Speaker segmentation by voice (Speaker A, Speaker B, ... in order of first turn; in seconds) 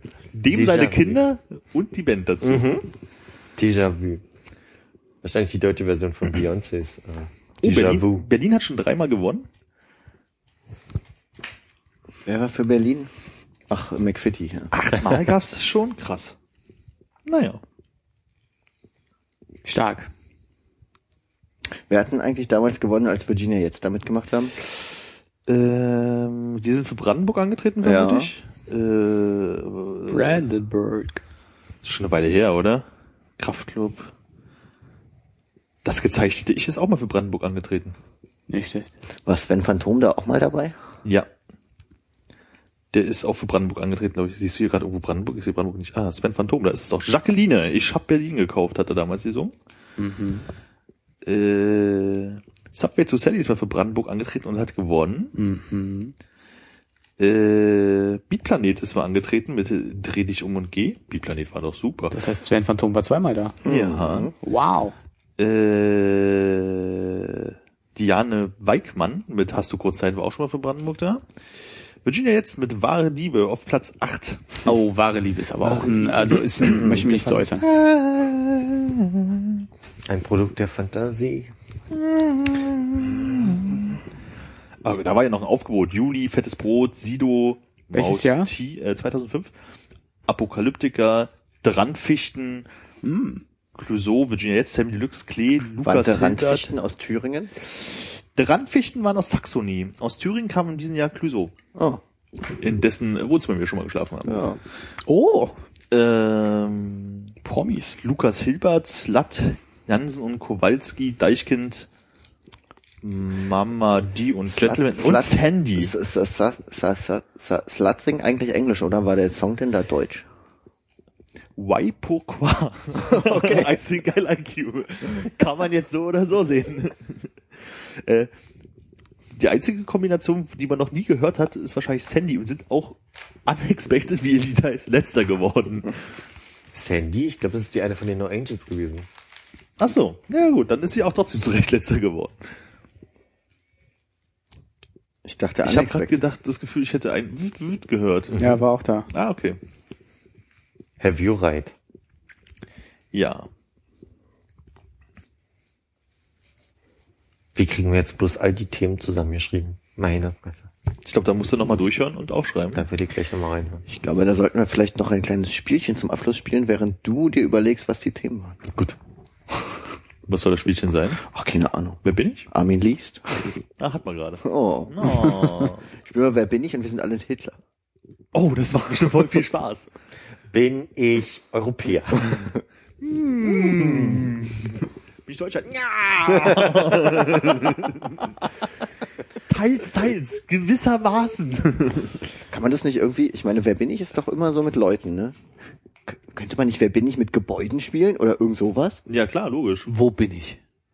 Speaker A: 0.3-2.7, 7.6-9.5, 14.8-16.4, 17.3-17.6, 25.5-30.4, 31.8-32.9, 33.4-34.1, 35.9-38.0, 42.9-49.5, 51.2-55.4, 57.2-62.1, 63.6-64.3, 65.4-71.2, 72.0-74.7, 75.6-79.6, 81.9-84.0, 84.8-89.5, 90.3-92.7, 93.8-96.7, 97.6-101.5, 102.5-104.5, 105.9-107.3, 108.0-111.9, 113.0-115.9, 121.6-128.3, 129.3-136.0, 139.8-142.4, 145.6-148.6, 149.1-149.6, 153.1-153.5, 161.1-162.8, 170.3-171.2, 172.1-172.5, 173.8-175.8, 178.3-179.9, 183.0-188.5, 189.5-192.2, 199.1-199.9
Speaker B: 0.5-1.2, 2.4-2.9, 3.6-4.2, 5.2-8.3, 80.1-81.5, 136.7-139.1, 151.0-151.7, 157.6-160.7, 162.7-163.8, 168.7-169.0, 180.5-182.5
Speaker C: 12.3-13.1, 13.7-14.7, 21.9-24.6, 27.8-28.3, 39.3-40.8, 63.6-64.3, 95.8-97.5, 101.8-102.0, 104.2-104.6, 114.5-120.3, 123.1-123.7, 145.2-146.2, 163.9-168.6, 171.2-173.5, 174.4-177.6, 192.5-195.4, 196.1-199.0
Speaker D: 19.6-20.1, 30.1-31.2, 38.5-38.9, 50.0-50.5, 55.4-56.1, 62.1-63.6, 64.4-65.0, 74.7-77.7, 87.9-88.5, 93.0-93.4, 105.1-105.5, 107.4-108.0, 148.4-149.1, 199.9-200.6